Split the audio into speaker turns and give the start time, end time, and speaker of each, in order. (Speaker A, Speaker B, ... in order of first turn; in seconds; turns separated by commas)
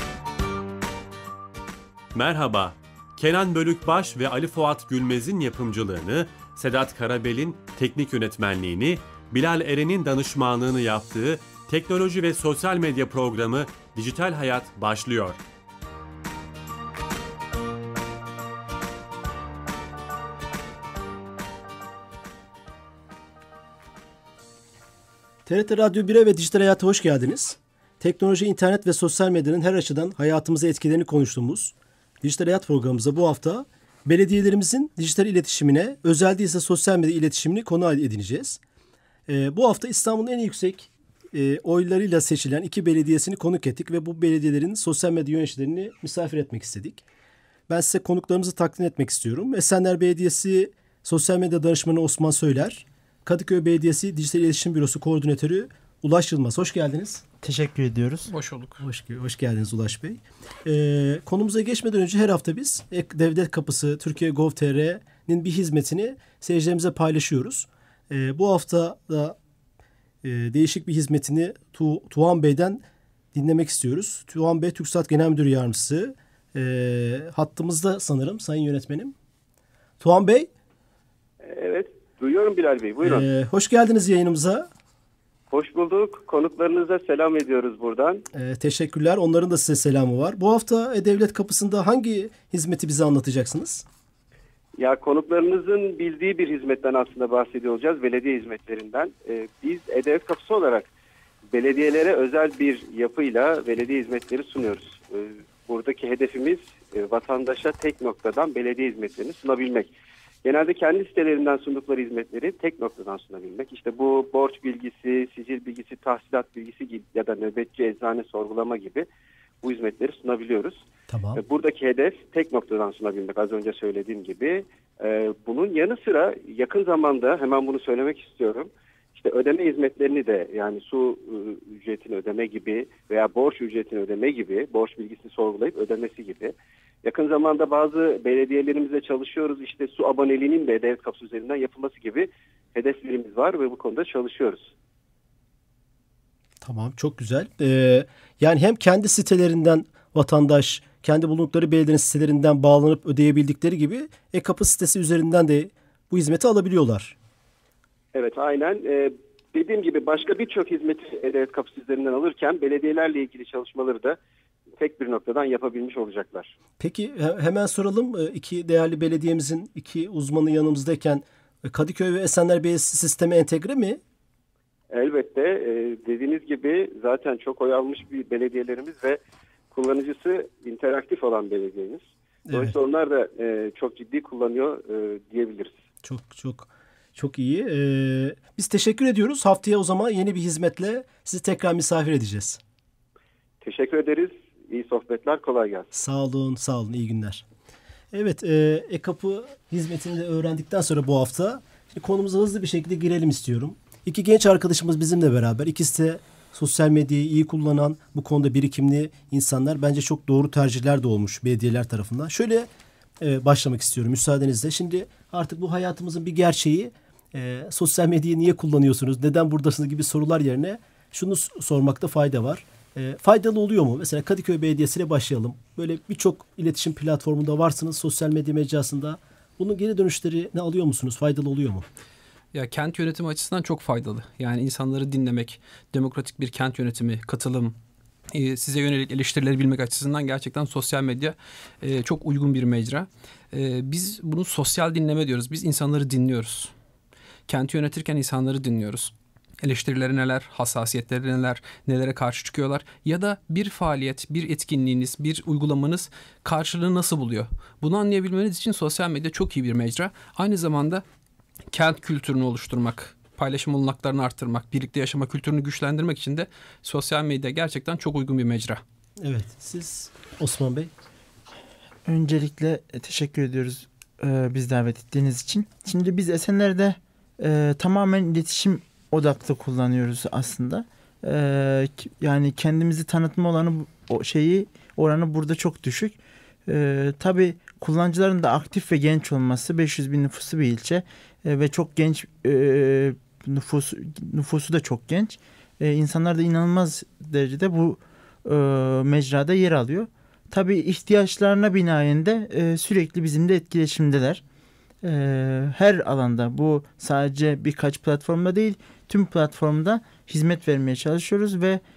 Speaker A: 2.1-15.4, Speaker B: 25.5-38.6, Speaker B: 39.3-47.0, Speaker B: 47.7-57.2, Speaker C: 57.4-58.3, Speaker D: 58.3-58.8, Speaker B: 58.8-69.4, Speaker B: 70.2-72.8, Speaker B: 73.3-79.2, Speaker B: 80.0-80.5, Speaker E: 81.4-83.3, Speaker B: 83.0-84.7, Speaker E: 85.5-88.2, Speaker B: 88.3-93.8, Speaker E: 94.8-100.9, Speaker E: 101.5-109.9, Speaker E: 110.4-119.1, Speaker E: 119.6-120.8, Speaker B: 121.1-121.4, Speaker E: 121.3-144.7, Speaker B: 146.6-157.2, Speaker E: 158.1-164.2, Speaker E: 164.8-166.5, Speaker B: 166.8-174.0, Speaker E: 174.9-179.2, Speaker E: 179.7-185.8, Speaker B: 182.5-182.8, Speaker B: 186.0-192.6, Speaker E: 193.6-195.9, Speaker B: 195.9-197.5, Speaker B: 198.1-212.7, Speaker B: 213.2-231.9, Speaker D: 232.5-237.8, Speaker D: 238.3-246.7, Speaker D: 247.5-261.0, Speaker D: 261.7-268.8, Speaker B: 269.2-270.9, Speaker C: 272.1-304.4, Speaker C: 305.0-311.8